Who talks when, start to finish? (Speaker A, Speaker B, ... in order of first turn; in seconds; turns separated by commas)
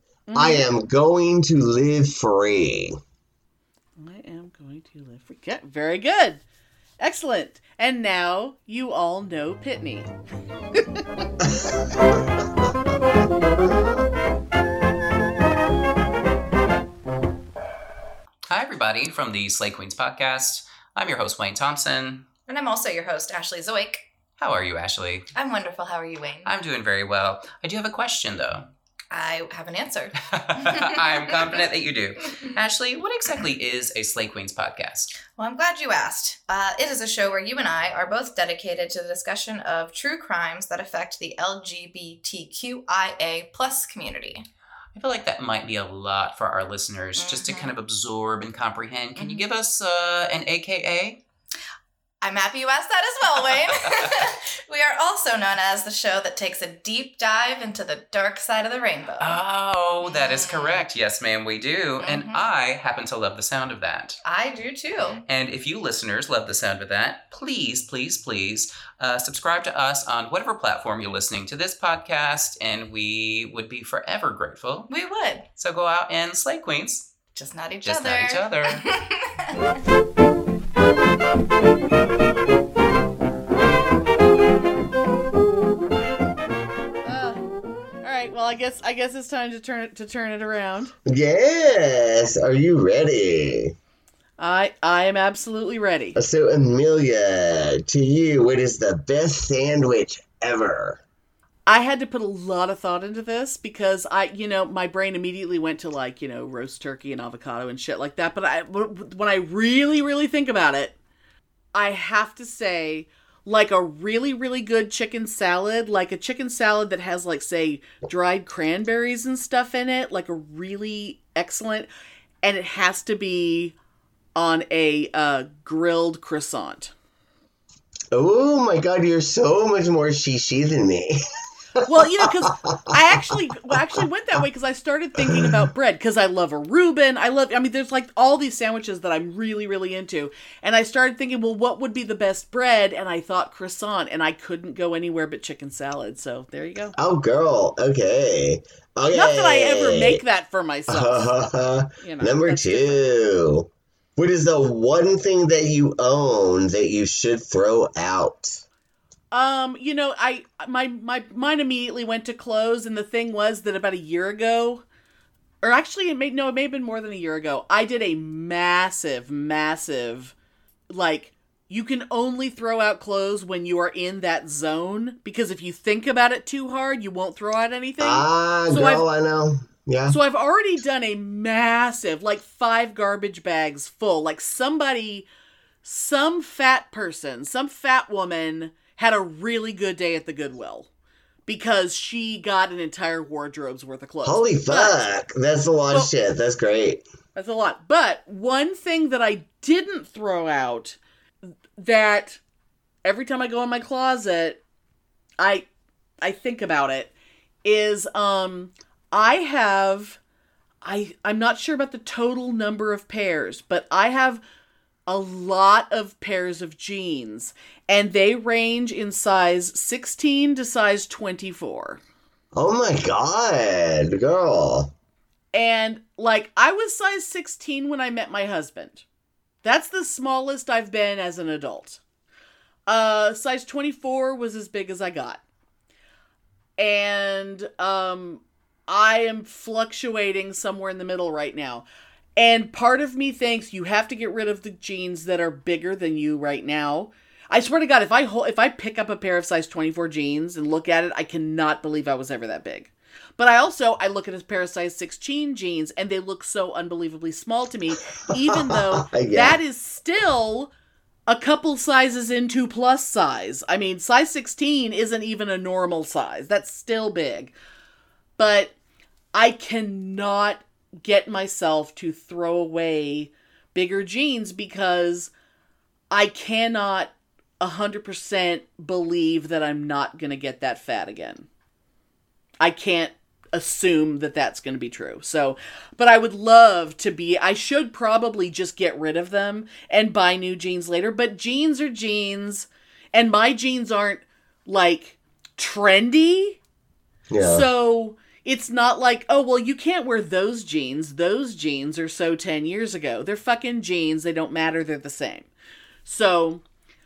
Speaker A: 0.3-0.6, Speaker B: 0.3-3.0, Speaker A: 4.0-6.4, Speaker A: 7.0-10.1, Speaker A: 10.7-11.0, Speaker B: 11.4-11.7, Speaker C: 18.5-22.3, Speaker D: 22.4-24.1, Speaker C: 24.4-25.3, Speaker D: 25.3-26.5, Speaker C: 26.4-28.7, Speaker D: 29.1-31.6, Speaker C: 30.3-35.2, Speaker D: 32.4-33.4, Speaker D: 35.2-44.4, Speaker C: 44.9-51.2, Speaker D: 47.2-47.7, Speaker D: 49.2-49.5, Speaker D: 52.2-59.4, Speaker C: 59.2-64.2, Speaker D: 60.0-60.8, Speaker D: 62.0-62.5, Speaker D: 64.2-65.2, Speaker C: 65.1-74.9, Speaker D: 74.9-75.5, Speaker C: 75.5-77.3, Speaker D: 77.3-79.5, Speaker C: 77.8-78.8, Speaker A: 87.0-87.4, Speaker A: 88.0-90.9, Speaker B: 91.0-93.8, Speaker A: 94.4-96.2, Speaker B: 96.2-101.0, Speaker A: 101.7-111.0, Speaker A: 111.7-121.9, Speaker A: 122.4-123.8, Speaker A: 124.3-126.9, Speaker B: 128.1-131.2, Speaker B: 131.7-133.8, Speaker A: 131.8-146.9, Speaker B: 135.2-135.6, Speaker B: 147.0-150.2, Speaker A: 149.1-151.3, Speaker B: 150.9-158.6, Speaker A: 152.0-153.0, Speaker A: 159.3-164.8, Speaker A: 165.6-170.3, Speaker A: 170.9-179.0, Speaker B: 178.0-180.2, Speaker A: 180.1-185.3, Speaker A: 185.8-190.9, Speaker A: 191.4-195.1, Speaker B: 194.2-197.0, Speaker A: 197.3-201.0, Speaker A: 201.8-202.4, Speaker A: 203.0-204.6, Speaker A: 205.4-205.7, Speaker A: 206.2-207.1, Speaker A: 207.6-210.2, Speaker A: 210.8-214.4, Speaker A: 215.1-222.0, Speaker B: 222.5-224.9, Speaker A: 225.5-229.0, Speaker A: 229.6-232.0, Speaker A: 232.9-235.4, Speaker A: 236.8-241.8, Speaker A: 242.4-260.7, Speaker B: 258.5-259.6, Speaker A: 261.3-267.5, Speaker A: 268.4-268.7, Speaker A: 269.3-275.3, Speaker A: 276.1-281.5, Speaker A: 282.6-296.6, Speaker B: 297.3-297.6, Speaker A: 297.4-305.5, Speaker A: 306.0-306.6